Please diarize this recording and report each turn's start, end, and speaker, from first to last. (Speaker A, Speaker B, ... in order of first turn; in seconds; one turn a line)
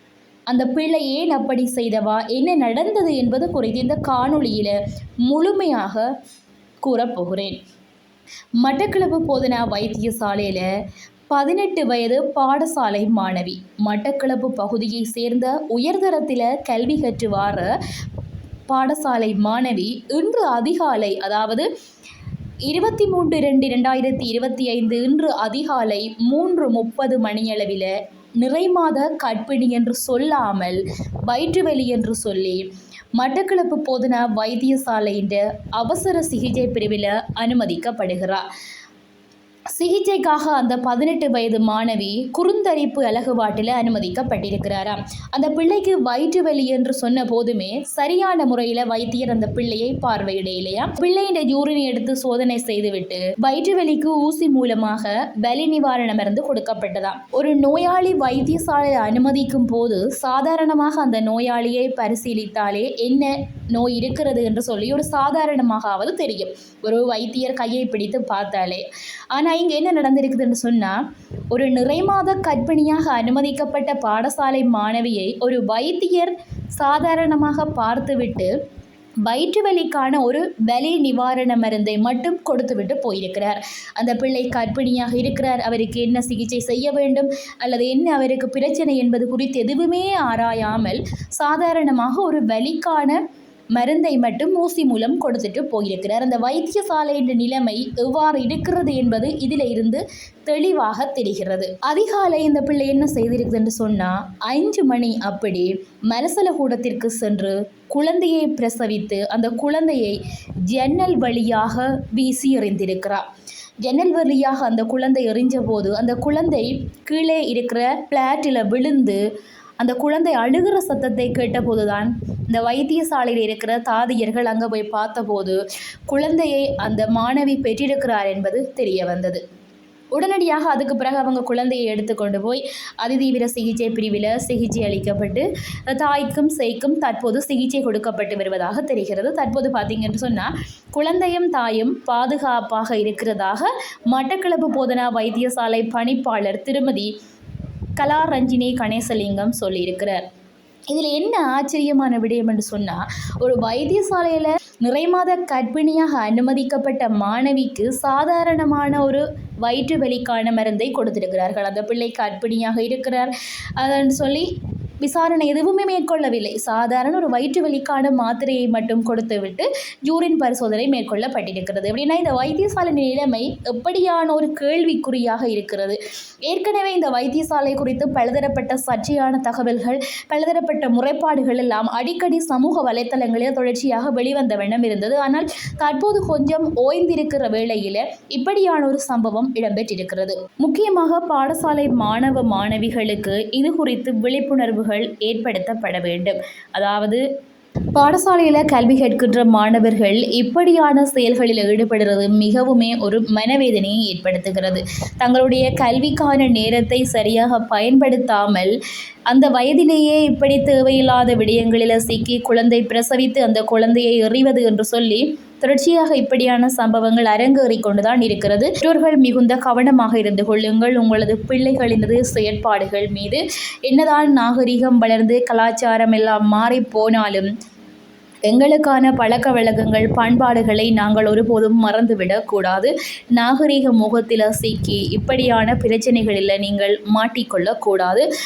Speaker A: 0.5-6.1
Speaker A: 6.8-7.6
Speaker A: 8.6-10.7
Speaker A: 11.3-17.7
Speaker A: 18.7-21.7
Speaker A: 22.6-38.4
Speaker A: 39.8-71.0
Speaker A: 71.5-78.5
Speaker A: 79.2-93.2
Speaker A: 93.8-110.2
Speaker A: 110.7-113.2
Speaker A: 113.8-119.2
Speaker A: 119.8-129.4
Speaker A: 130.1-147.1
Speaker A: 148.0-150.2
Speaker A: 150.9-164.5
Speaker A: 165.0-197.2
Speaker A: 197.9-208.7
Speaker A: 209.3-227.5
Speaker A: 228.5-238.2